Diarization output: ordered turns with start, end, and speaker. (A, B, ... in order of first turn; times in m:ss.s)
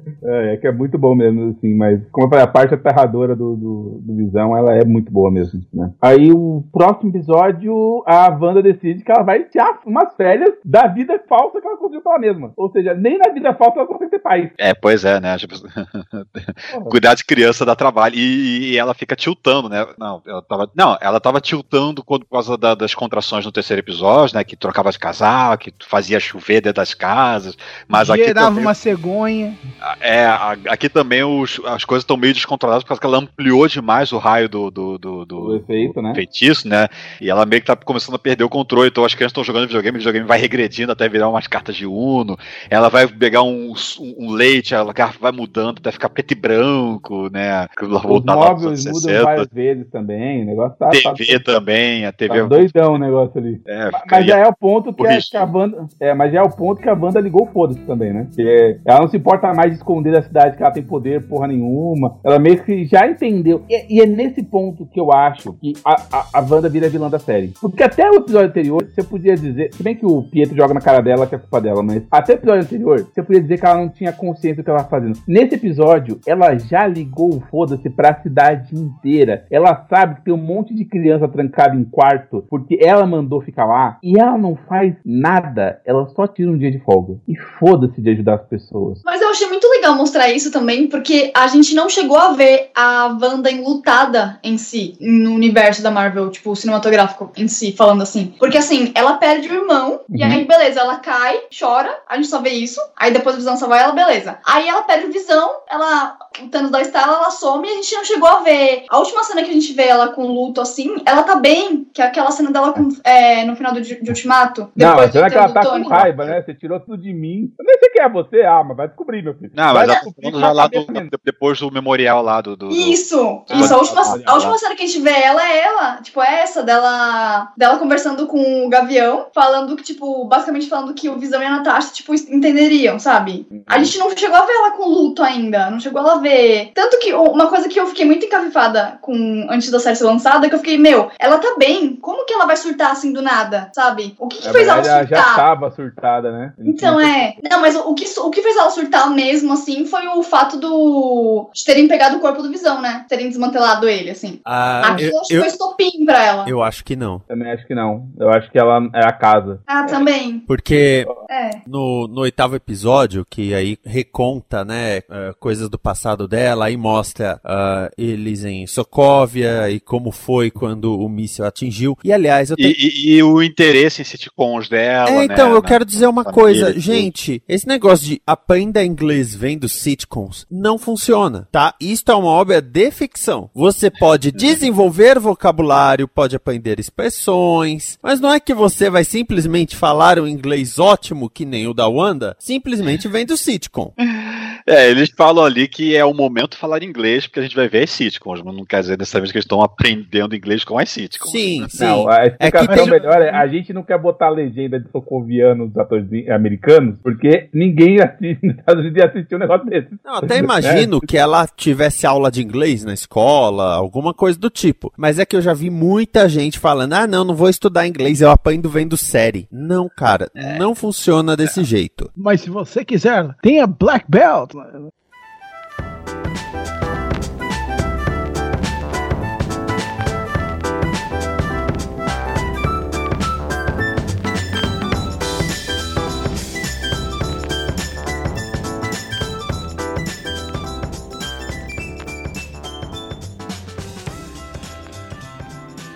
0:00.2-0:14.5 A
0:14.6-0:28.7 B
0:16.7-0:17.0 A
0:27.9-0:29.6 C
0:29.8-0:49.5 B
0:35.4-0:36.2 A
0:48.1-0:51.4 A
0:50.9-0:53.0 B
0:52.3-1:29.0 A
0:53.7-0:54.4 B
0:55.0-0:55.5 B
1:29.0-1:56.0 D
1:40.1-1:40.4 A
1:54.8-2:01.1 A
1:55.9-1:56.4 B
1:59.5-2:03.0 B
1:59.7-2:00.0 D
2:02.7-2:25.4 D
2:03.5-2:04.5 A
2:03.5-2:04.5 B
2:13.5-2:14.0 A
2:24.4-2:27.3 A
2:26.6-2:36.5 D
2:34.5-2:35.5 E
2:36.4-2:37.2 E
2:37.3-2:40.0 A
2:39.7-2:40.5 D
2:40.5-2:41.1 E
2:41.3-2:41.6 D
2:41.7-2:52.8 E
2:52.6-2:57.1 B
2:55.0-3:13.9 E
3:04.4-3:04.6 B
3:14.0-3:21.7 B
3:21.2-3:22.9 E
3:21.8-3:30.9 A
3:22.7-3:23.4 C
3:30.0-3:42.1 E
3:42.2-3:44.9 C